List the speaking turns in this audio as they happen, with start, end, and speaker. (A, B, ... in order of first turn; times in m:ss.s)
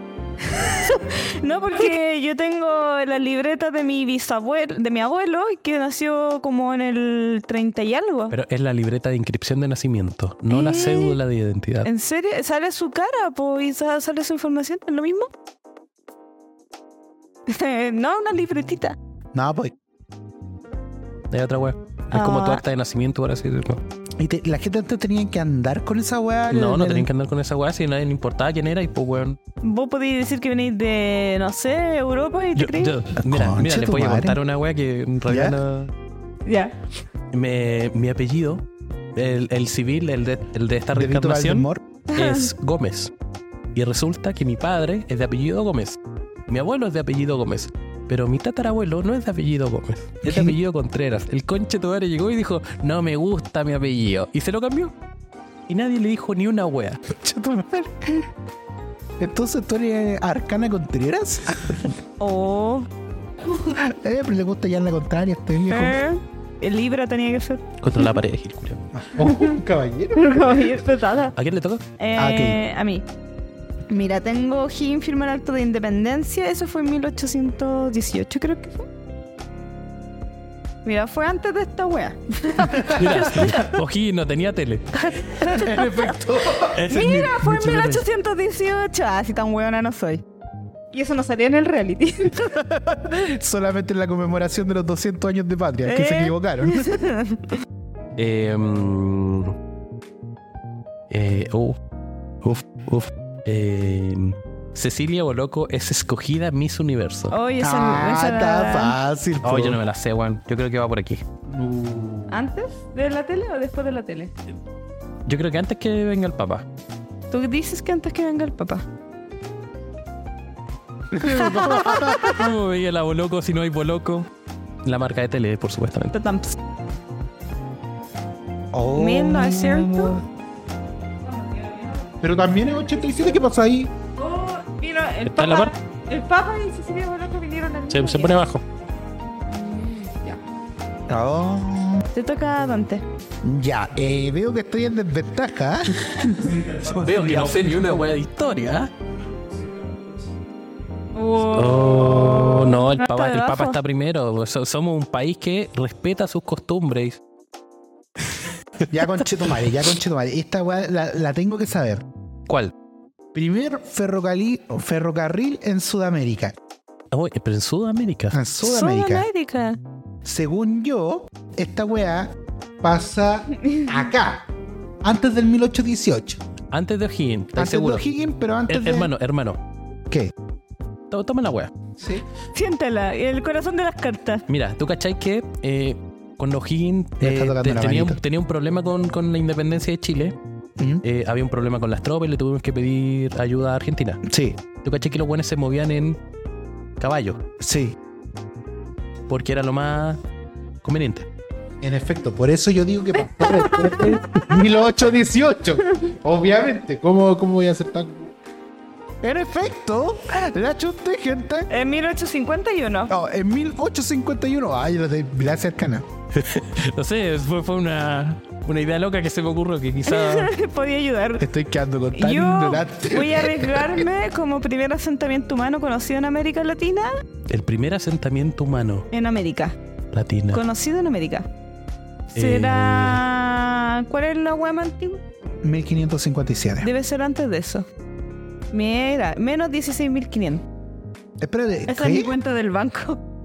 0:00.4-0:08.3 A
0:08.3-0:11.9 B
0:10.5-0:11.2 A
0:11.8-0:15.3 A
0:17.5-0:19.0 A
0:19.3-0:19.7 C
0:21.3-0:23.8 B
0:22.1-0:22.6 A
0:24.2-0:27.1 C
0:26.5-0:29.4 B
0:29.6-0:33.0 A
0:32.6-0:35.9 B
0:33.2-0:34.4 C
0:35.2-0:35.6 C
0:36.4-0:36.8 A
0:37.3-0:38.6 B
0:39.1-0:43.1 B
0:40.9-0:41.8 C
0:42.1-0:42.5 A
0:43.7-0:54.9 B
0:50.2-0:50.6 C
0:55.7-0:57.0 B
0:57.1-0:58.3 C
0:59.2-1:02.0 C
1:02.2-1:02.9 A
1:03.5-1:06.0 C
1:05.7-1:07.6 A
1:07.8-1:08.8 B
1:08.9-1:10.6 C
1:09.2-1:09.5 A
1:10.1-1:11.3 A
1:11.4-1:11.8 B
1:12.0-1:13.0 A
1:12.2-1:12.6 C
1:13.9-1:18.9 A
1:20.8-1:23.5 A
1:22.6-1:23.7 C
1:22.8-1:25.1 B
1:25.0-1:26.1 A
1:25.4-1:26.8 C
1:26.7-1:28.0 B
1:26.8-1:30.2 A
1:30.9-1:32.5 A
1:32.2-1:37.0 C
1:35.8-1:37.6 A
1:38.2-1:39.5 B
1:41.1-1:41.8 B
1:42.4-1:47.4 B
1:47.3-1:49.0 A
1:47.6-1:49.8 C
1:49.4-1:51.2 B
1:51.5-1:52.4 C
1:52.3-1:54.3 A
1:55.2-1:56.6 B
1:57.3-1:58.8 A
2:01.1-2:02.5 C
2:01.2-2:02.4 A
2:01.8-2:04.3 B
2:04.8-2:06.1 B
2:06.1-2:06.6 A
2:08.7-2:10.2 C
2:08.9-2:10.2 A
2:11.2-2:12.1 A
2:12.2-2:13.9 C
2:12.8-2:13.3 A
2:14.2-2:18.3 A
2:15.2-2:15.7 B
2:17.9-2:18.6 B
2:19.5-2:20.4 A
2:21.1-2:22.0 C
2:22.1-2:23.0 A
2:23.4-2:27.8 C
2:26.5-2:28.9 B
2:31.2-2:33.8 A
2:31.4-2:37.2 B
2:38.9-2:42.0 C
2:43.3-2:46.5 C
2:47.1-2:48.4 B
2:48.3-2:49.3 C
2:48.6-2:49.8 A
2:50.2-2:54.5 C
2:53.6-2:53.9 A
2:55.0-2:56.4 C
2:56.7-2:58.0 B
2:57.6-2:59.1 C
2:58.7-2:59.6 B
3:01.1-3:01.7 B
3:02.0-3:02.2 C
3:02.5-3:04.4 A
3:04.5-3:10.3 B
3:07.2-3:08.2 C
3:10.8-3:11.0 C
3:11.0-3:14.2 B
3:14.2-3:14.6 C
3:14.8-3:16.2 B
3:17.0-3:17.4 B
3:17.6-3:18.0 C
3:19.3-3:20.2 B
3:20.8-3:21.3 B
3:21.8-3:28.3 C
3:23.4-3:24.4 A
3:29.2-3:31.7 C
3:31.7-3:33.1 A
3:33.1-3:36.0 C
3:36.3-3:40.5 B
3:40.0-3:41.4 A
3:41.4-3:44.0 C
3:42.1-3:47.1 A
3:47.5-3:49.1 B
3:49.1-3:49.8 A
3:50.1-3:50.6 B
3:50.5-3:51.5 A
3:52.3-3:55.2 A
3:52.3-3:53.2 B
3:55.6-3:56.9 C
3:56.8-3:57.9 A
3:58.7-4:00.6 A
4:01.4-4:02.3 C
4:01.9-4:03.2 A